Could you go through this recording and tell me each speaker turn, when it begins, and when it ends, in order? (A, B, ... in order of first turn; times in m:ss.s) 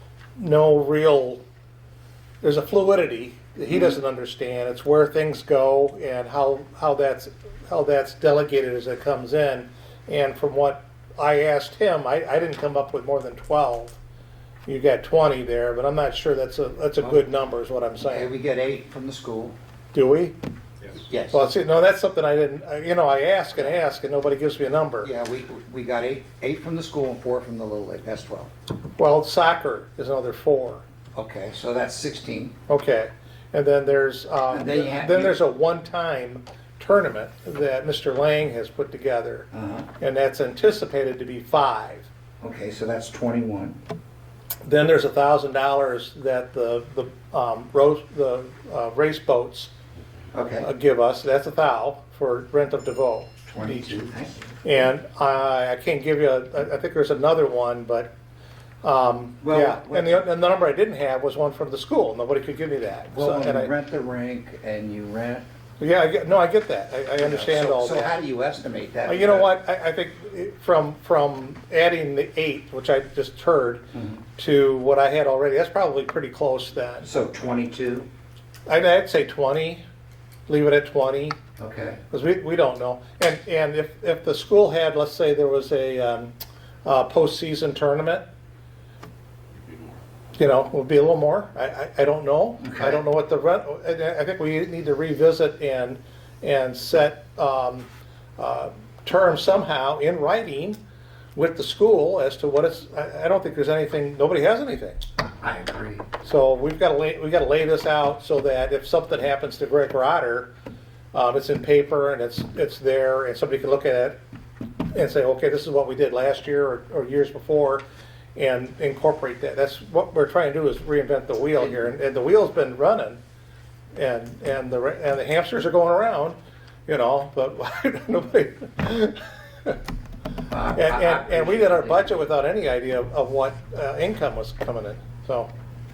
0:00.4-0:01.4 A
0:02.4-0:14.0 A
0:14.7-0:18.3 A
0:18.0-0:19.6 B
0:19.9-0:20.4 A
0:21.0-0:21.5 B
0:21.3-0:25.1 A
0:25.0-0:28.5 B
0:29.0-0:30.8 A
0:31.1-0:32.6 B
0:32.7-0:39.5 A
0:34.5-0:35.4 B
0:39.5-0:39.9 B
0:40.0-0:42.1 A
0:42.4-0:43.8 B
0:44.6-0:49.7 A
0:50.3-0:50.7 B
0:50.6-0:54.0 A
0:53.5-0:54.4 B
0:54.6-0:58.1 A
0:58.8-1:03.7 A
0:59.4-1:00.2 B
1:03.1-1:05.4 B
1:05.8-1:08.1 A
1:07.2-1:09.5 B
1:09.0-1:17.1 A
1:13.9-1:14.2 B
1:17.0-1:18.1 B
1:18.7-1:19.8 A
1:20.5-1:21.4 A
1:21.6-1:22.0 B
1:22.1-1:26.3 A
1:26.8-1:28.2 A
1:30.4-1:40.8 A
1:32.6-1:33.0 B
1:41.4-1:45.0 A
1:45.2-1:46.1 B
1:46.2-1:50.5 A
1:51.1-1:54.2 A
1:54.9-1:57.8 A
1:58.4-2:03.2 A
2:03.9-2:09.8 A
2:10.5-2:12.2 B
2:10.7-2:15.5 A